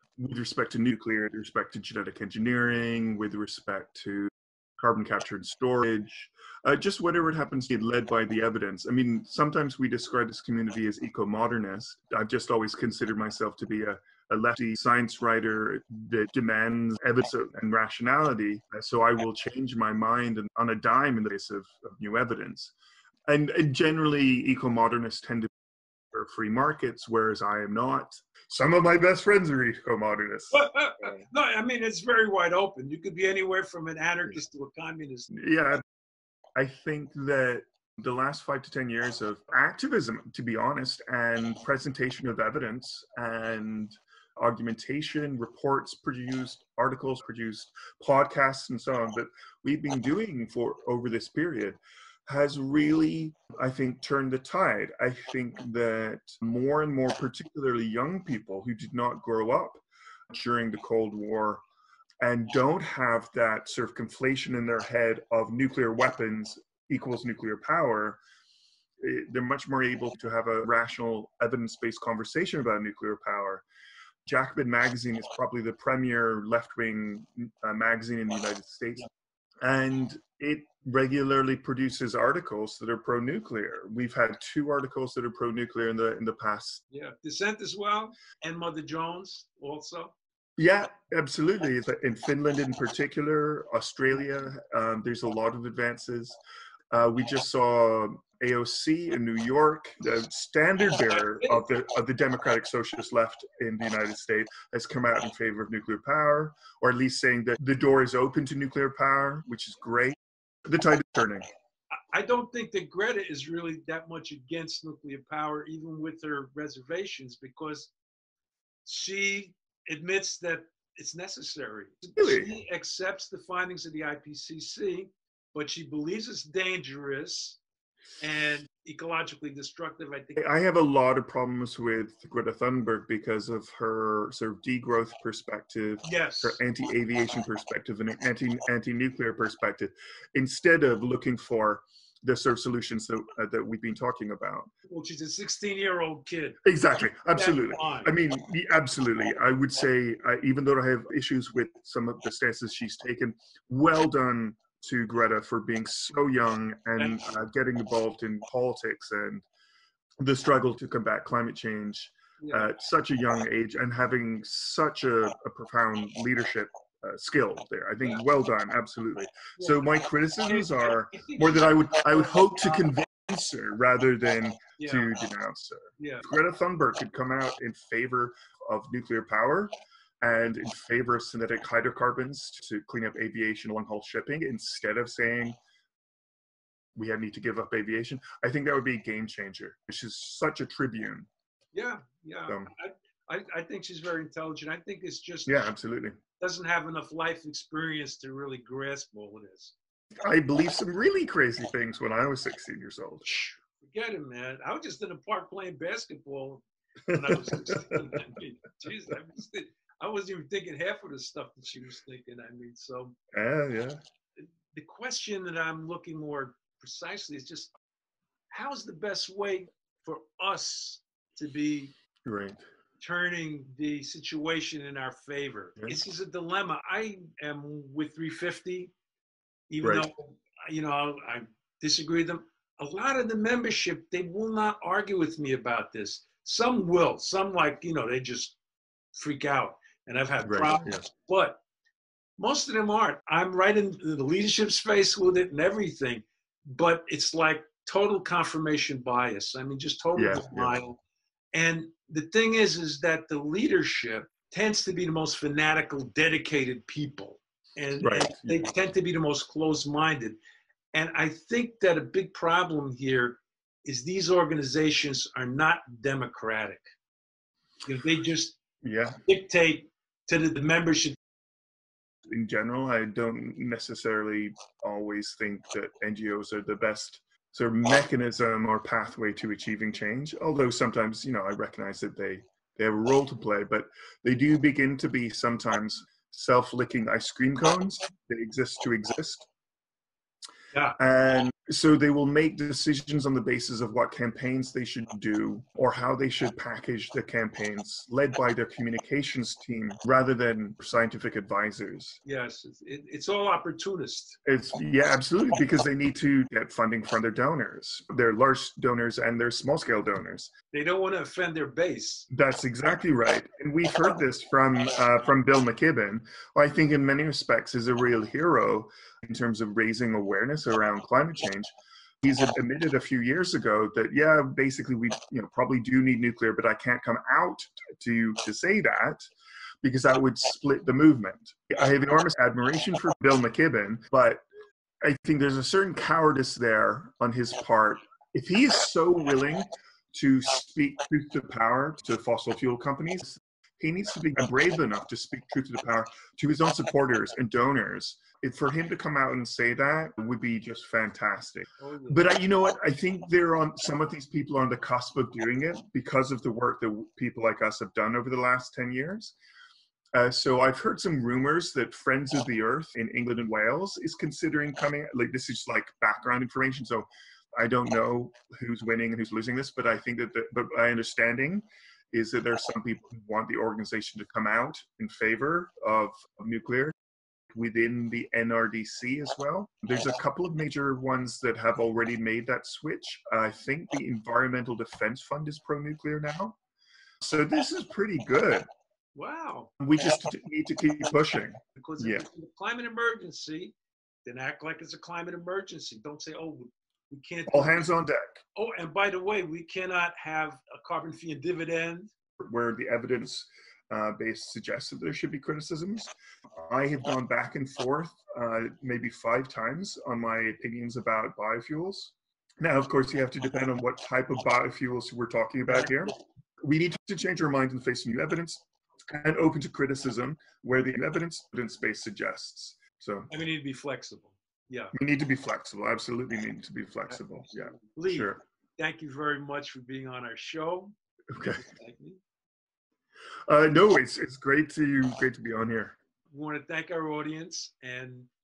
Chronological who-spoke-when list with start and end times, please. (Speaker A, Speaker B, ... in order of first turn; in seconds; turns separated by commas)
Speaker A: 0.2-22.7, Speaker A: 23.3-25.5, Speaker A: 26.1-31.2, Speaker B: 30.5-35.3, Speaker A: 35.3-35.8, Speaker A: 36.5-61.6, Speaker A: 62.2-68.2, Speaker A: 69.0-73.6, Speaker A: 74.2-79.0, Speaker A: 79.6-86.8, Speaker B: 86.9-90.1, Speaker A: 90.6-96.4, Speaker A: 96.9-111.5, Speaker B: 111.9-117.9, Speaker B: 118.8-127.6, Speaker A: 122.2-122.5, Speaker B: 128.2-130.4, Speaker A: 130.3-144.7, Speaker B: 136.0-136.6, Speaker B: 144.9-146.6, Speaker A: 146.6-159.4, Speaker B: 147.3-148.1, Speaker B: 157.0-157.2, Speaker A: 160.2-185.6, Speaker B: 162.4-162.7, Speaker B: 169.6-169.8, Speaker B: 170.4-172.8, Speaker B: 174.8-175.1, Speaker B: 176.0-176.2, Speaker A: 186.9-191.3, Speaker B: 191.7-195.7, Speaker A: 195.4-196.2, Speaker B: 196.4-199.7, Speaker A: 200.2-203.2, Speaker B: 203.2-213.2, Speaker A: 207.1-208.0, Speaker A: 213.3-214.0, Speaker B: 214.7-217.7, Speaker B: 218.5-221.9, Speaker A: 222.2-222.6, Speaker B: 223.0-228.9, Speaker B: 229.7-238.6, Speaker A: 229.8-230.1, Speaker B: 239.1-241.6, Speaker A: 240.4-241.1, Speaker B: 242.4-251.0, Speaker A: 250.2-250.8, Speaker B: 251.5-260.4, Speaker A: 258.0-258.7, Speaker B: 260.9-266.8, Speaker B: 267.9-268.6, Speaker A: 268.8-269.2, Speaker B: 269.2-271.1, Speaker A: 272.3-289.5, Speaker A: 291.0-302.2, Speaker B: 302.2-304.4, Speaker A: 304.4-310.5, Speaker B: 310.7-312.3, Speaker A: 312.3-321.7, Speaker A: 322.2-329.2, Speaker A: 329.8-334.4, Speaker A: 335.0-359.3, Speaker B: 351.8-352.3, Speaker A: 360.1-367.1, Speaker A: 367.6-376.9, Speaker A: 377.5-386.6, Speaker A: 387.2-388.6, Speaker B: 389.1-389.7, Speaker A: 389.8-392.2, Speaker B: 391.8-393.7, Speaker B: 394.2-397.9, Speaker A: 397.5-398.4, Speaker B: 398.6-402.1, Speaker A: 402.4-423.3, Speaker B: 423.3-424.9, Speaker A: 424.9-428.4, Speaker B: 427.9-430.9, Speaker A: 431.3-431.6, Speaker B: 431.5-432.2, Speaker A: 433.5-436.0, Speaker B: 436.3-438.3